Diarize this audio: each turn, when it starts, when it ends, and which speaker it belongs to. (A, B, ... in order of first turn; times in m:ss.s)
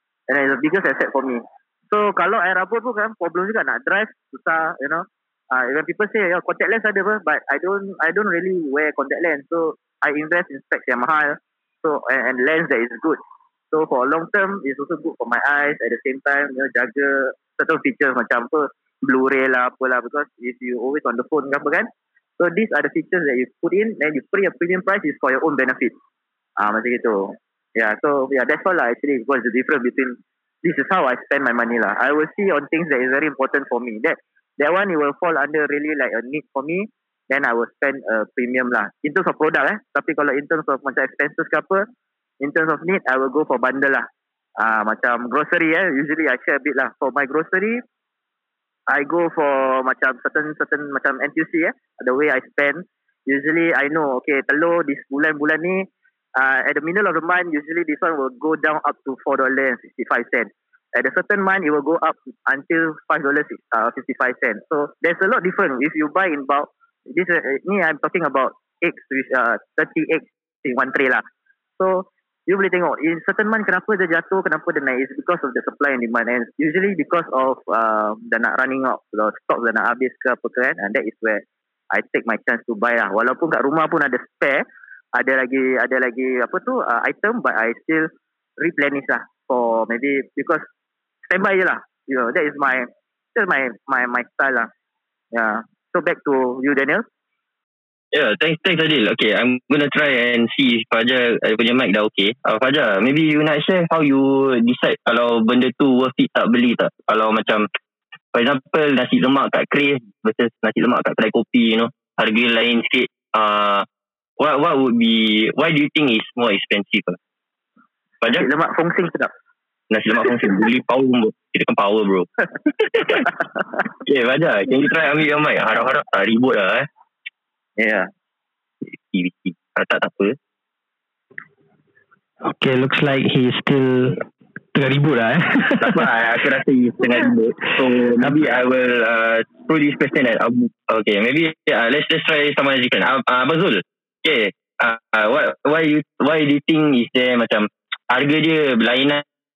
0:00.3-0:13.2 A
0:13.7-0:26.0 A
0:26.6-0:41.9 A
0:42.4-0:44.1 A
0:44.6-0:47.8 A
0:48.9-1:11.2 A
1:11.8-1:30.7 A
1:31.3-1:34.7 A
1:35.3-1:37.1 A
1:38.1-1:47.7 B
1:48.3-1:53.9 B
1:54.4-1:57.2 B
1:58.3-1:59.3 A
1:59.9-2:03.3 B
2:04.0-2:06.9 B
2:07.8-2:08.1 A
2:08.8-2:10.4 B
2:12.4-2:14.2 C
2:14.7-2:16.0 C
2:15.8-2:29.2 B